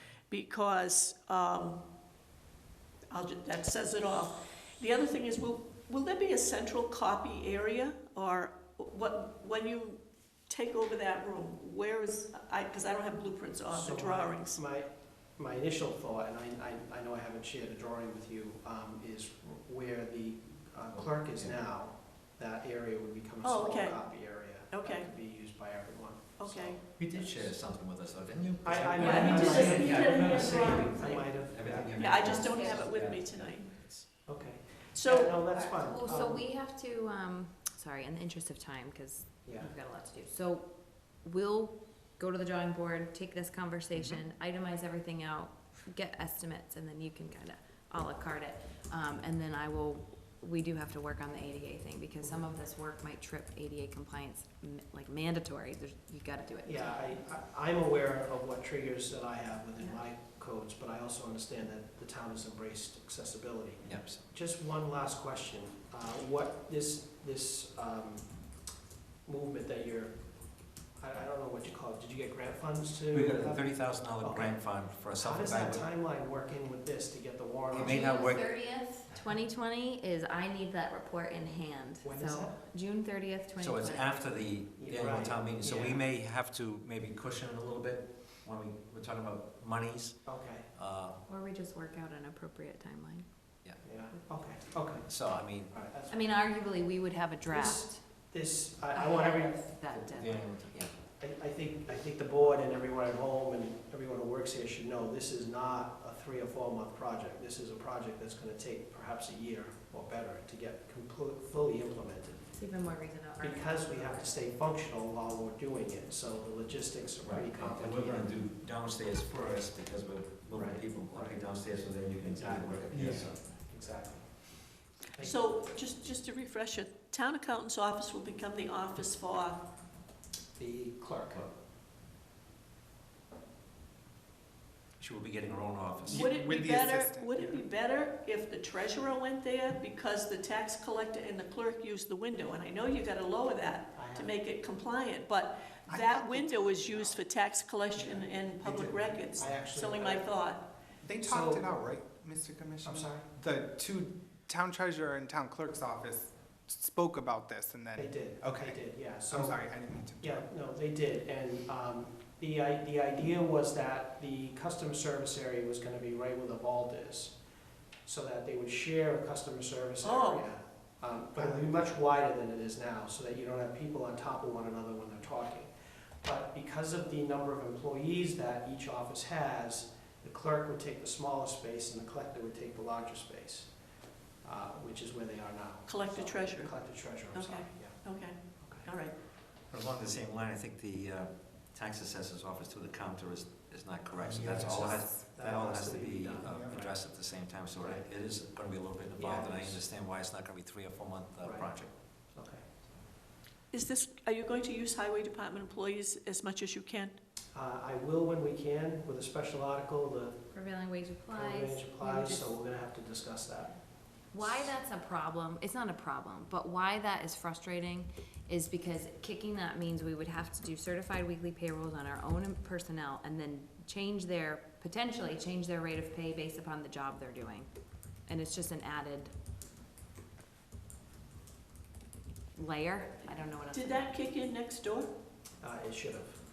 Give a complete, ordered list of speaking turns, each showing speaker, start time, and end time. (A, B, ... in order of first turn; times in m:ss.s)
0:00.3-0:01.8 A
0:03.1-0:14.6 A
0:13.7-0:27.5 B
0:20.9-0:21.5 C
0:23.4-0:24.0 A
0:24.7-0:25.1 A
0:26.4-0:26.8 A
0:27.0-0:33.6 C
0:28.6-0:32.0 B
0:29.0-0:29.8 D
0:29.0-0:31.2 A
0:31.9-0:34.1 A
0:32.2-0:32.8 D
0:34.2-0:36.4 B
0:34.9-0:35.4 A
0:35.5-0:57.2 D
0:39.4-0:39.7 B
0:56.6-1:08.5 B
1:03.8-1:04.2 C
1:09.2-1:18.3 B
1:13.1-1:15.9 C
1:17.7-1:18.7 C
1:17.7-1:24.4 D
1:22.0-1:22.5 B
1:23.6-1:31.2 C
1:24.8-1:26.0 B
1:30.2-1:30.7 B
1:31.2-1:33.3 D
1:33.8-1:36.5 B
1:35.0-1:35.9 C
1:36.1-1:38.2 D
1:37.5-1:39.7 B
1:38.9-1:40.7 D
1:39.9-1:40.9 C
1:41.2-1:52.5 B
1:52.5-1:54.3 D
1:53.4-1:58.4 B
1:57.2-2:03.4 C
2:00.5-2:01.4 B
2:02.2-2:05.5 B
2:05.2-2:09.6 A
2:10.6-2:11.5 B
2:15.0-2:16.3 C
2:16.0-2:17.6 E
2:16.1-2:30.7 A
2:23.9-2:24.3 B
2:25.9-2:27.2 E
2:27.9-2:30.3 B
2:31.0-2:40.5 E
2:31.2-2:31.6 B
2:32.8-2:33.3 B
2:38.0-2:39.6 B
2:40.2-2:47.4 B
2:48.0-2:55.7 B
2:50.0-2:50.5 A
2:56.2-3:03.7 B
3:04.4-3:08.0 B
3:05.8-3:09.1 A
3:08.6-3:08.9 B
3:09.7-3:21.9 C
3:14.2-3:15.2 E
3:14.4-3:16.8 B
3:16.4-3:16.9 E
3:19.2-3:19.8 B
3:21.4-3:22.6 B
3:23.7-3:27.2 A
3:27.5-3:30.4 B
3:30.5-3:32.5 D
3:31.3-3:33.8 B
3:34.3-3:47.7 D
3:48.2-3:49.3 D
3:52.5-3:54.1 D
3:53.7-3:55.1 A
3:55.6-3:56.4 B